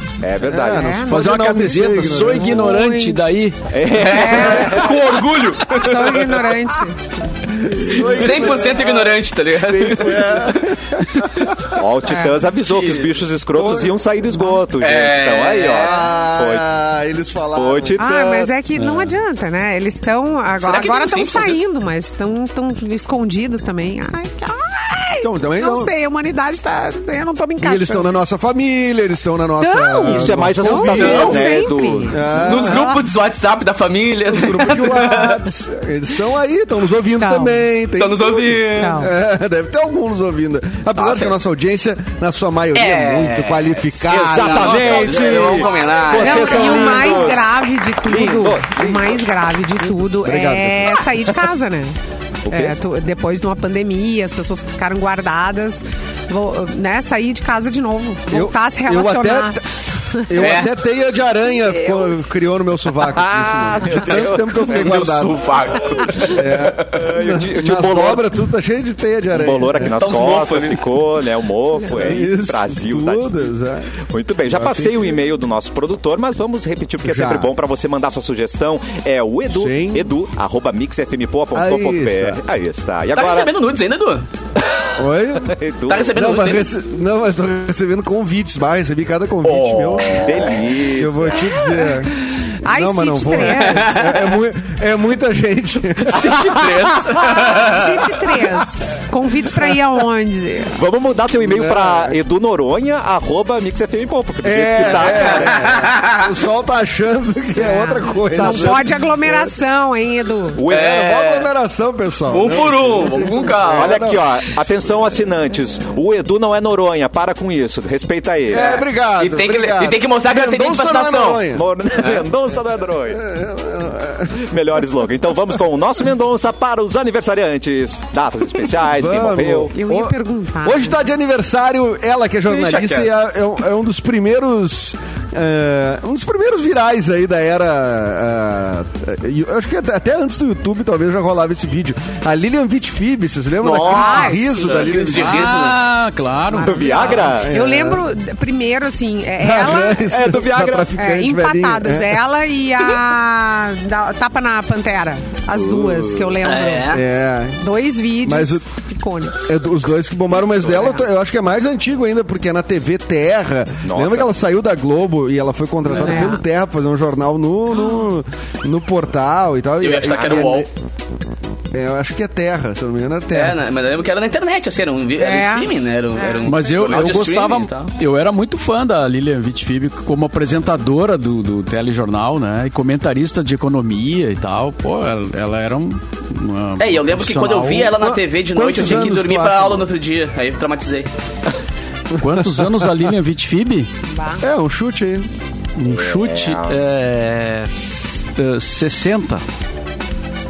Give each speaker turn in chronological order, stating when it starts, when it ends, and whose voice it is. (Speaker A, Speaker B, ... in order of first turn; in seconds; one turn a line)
Speaker A: 0.2-1.0
Speaker B: 0.4-2.8
Speaker C: 0.7-3.2
Speaker D: 1.1-3.6
Speaker A: 3.7-5.5
Speaker E: 3.9-6.5
Speaker C: 4.1-4.9
Speaker C: 5.6-7.1
Speaker B: 7.5-11.8
Speaker E: 8.0-10.6
Speaker A: 11.7-16.6
Speaker C: 12.0-12.3
Speaker E: 12.6-13.2
Speaker B: 13.5-14.1
Speaker E: 14.8-16.1
Speaker B: 15.7-18.0
Speaker A: 17.5-18.5
Speaker C: 18.0-28.1
Speaker D: 18.7-19.2
Speaker E: 20.6-21.6
Speaker B: 25.2-25.9
Speaker B: 27.6-31.5
Speaker C: 29.6-33.0
Speaker A: 30.0-32.1
Speaker E: 30.9-31.5
Speaker B: 32.1-32.9
Speaker E: 32.4-35.4
Speaker B: 34.3-45.8
Speaker C: 37.2-37.6
Speaker E: 38.0-39.1
Speaker C: 38.8-39.1
Speaker E: 41.0-41.4
Speaker E: 42.7-47.4
Speaker A: 44.1-49.3
Speaker C: 46.2-51.9
Speaker B: 50.2-51.0
Speaker A: 52.5-52.7
Speaker C: 52.5-60.4
Speaker B: 58.3-59.6
Speaker B: 60.2-65.5
Speaker E: 60.4-60.7
Speaker C: 61.5-62.2
Speaker A: 63.1-64.9
Speaker E: 64.6-67.0
Speaker B: 66.2-69.9
Speaker A: 66.2-68.3
Speaker A: 69.3-73.4
Speaker E: 69.8-70.9
Speaker B: 71.8-75.2
Speaker A: 74.0-83.5
Speaker B: 77.0-77.5
Speaker B: 79.5-80.1
Speaker B: 81.5-82.4
Speaker E: 83.1-84.2
Speaker B: 85.0-85.6
Speaker A: 85.5-86.3
Speaker E: 85.9-86.7
Speaker B: 86.1-92.1
Speaker E: 89.4-90.6
Speaker A: 90.1-91.6
Speaker C: 92.5-94.1
Speaker B: 92.7-96.4
Speaker E: 93.4-94.3
Speaker E: 96.0-98.2
Speaker A: 96.5-97.5
Speaker C: 97.2-100.8
Speaker A: 100.7-105.9
Speaker B: 101.3-102.2
Speaker B: 104.4-109.0
Speaker E: 105.0-106.2
Speaker C: 107.6-110.6
Speaker A: 108.4-108.8
Speaker A: 110.5-111.1
Speaker E: 110.7-111.5
Speaker B: 111.0-114.2
Speaker E: 112.3-114.0
Speaker A: 113.7-118.8
Speaker B: 118.5-121.7
Speaker E: 119.2-121.5
Speaker A: 121.5-123.2
Speaker E: 122.0-122.2
Speaker B: 123.1-124.5
Speaker A: 124.3-129.7
Speaker B: 128.8-145.6
Speaker C: 129.7-131.0
Speaker E: 132.5-133.1
Speaker E: 143.6-145.8
Speaker C: 143.8-144.9
Speaker D: 145.1-146.9
Speaker C: 146.5-150.1
Speaker A: 146.6-147.5
Speaker B: 147.1-148.0
Speaker B: 149.4-152.2
Speaker A: 150.0-150.9
Speaker C: 150.9-157.0
Speaker A: 155.5-156.3
Speaker E: 156.4-157.0
Speaker B: 156.9-157.6
Speaker C: 157.6-159.4
Speaker B: 158.2-158.6
Speaker B: 159.4-170.7
Speaker A: 160.4-160.9
Speaker A: 163.8-164.3
Speaker C: 165.9-166.4
Speaker E: 169.8-170.7
Speaker A: 170.2-170.5
Speaker B: 171.7-173.6
Speaker E: 173.3-177.9
Speaker C: 175.2-176.7
Speaker D: 176.4-188.0
Speaker E: 186.8-191.1
Speaker B: 187.9-189.9
Speaker D: 192.2-193.9
Speaker B: 192.2-192.9
Speaker C: 194.1-194.4
Speaker B: 194.4-195.3
Speaker D: 195.8-199.4
Speaker A: 195.8-196.8